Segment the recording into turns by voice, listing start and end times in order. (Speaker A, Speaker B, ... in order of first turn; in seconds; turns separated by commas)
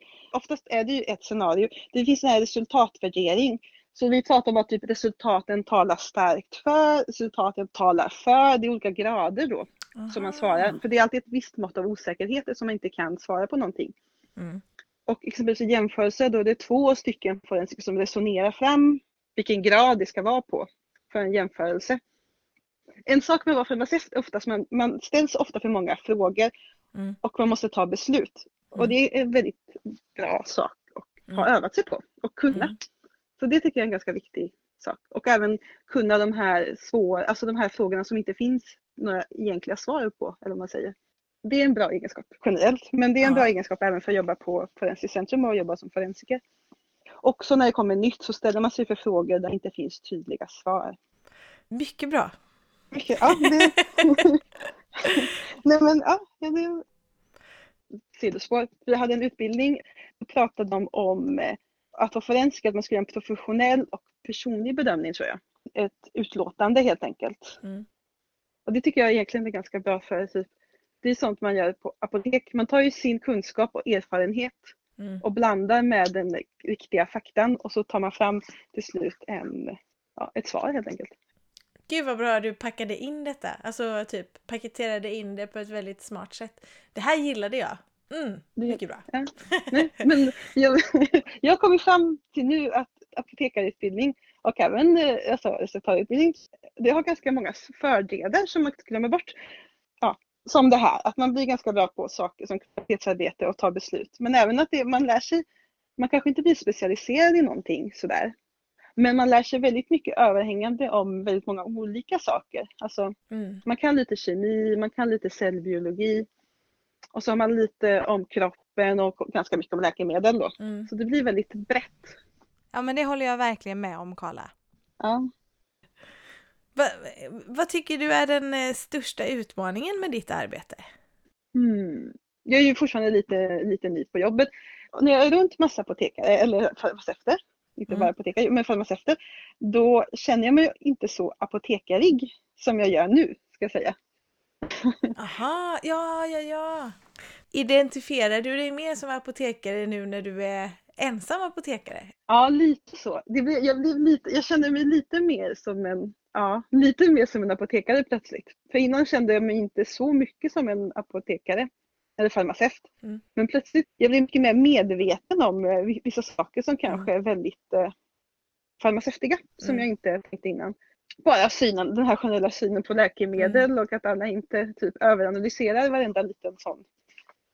Speaker A: 0.3-13.9, Speaker B: 10.0-10.8, Speaker B: 14.4-14.6, Speaker A: 15.1-22.0, Speaker A: 23.1-26.5, Speaker A: 27.2-32.8, Speaker A: 33.4-46.4, Speaker B: 43.2-43.5, Speaker A: 47.2-51.0, Speaker B: 51.7-52.4, Speaker A: 52.9-54.4, Speaker B: 53.3-54.2, Speaker A: 55.0-56.9, Speaker A: 58.1-67.6, Speaker A: 68.7-70.5, Speaker A: 71.0-81.1, Speaker B: 75.0-75.2, Speaker B: 81.9-90.0, Speaker A: 88.6-99.3, Speaker A: 100.0-105.4, Speaker A: 106.0-108.3, Speaker A: 109.0-116.3, Speaker B: 113.3-113.6, Speaker A: 117.2-122.2, Speaker B: 120.6-120.9, Speaker B: 122.7-124.5, Speaker A: 125.0-125.3, Speaker B: 126.8-130.9, Speaker A: 131.6-143.9, Speaker A: 144.8-145.2, Speaker B: 145.2-147.0, Speaker B: 147.5-152.1, Speaker A: 152.3-167.9, Speaker A: 168.8-170.7, Speaker A: 171.2-176.8, Speaker B: 173.4-173.7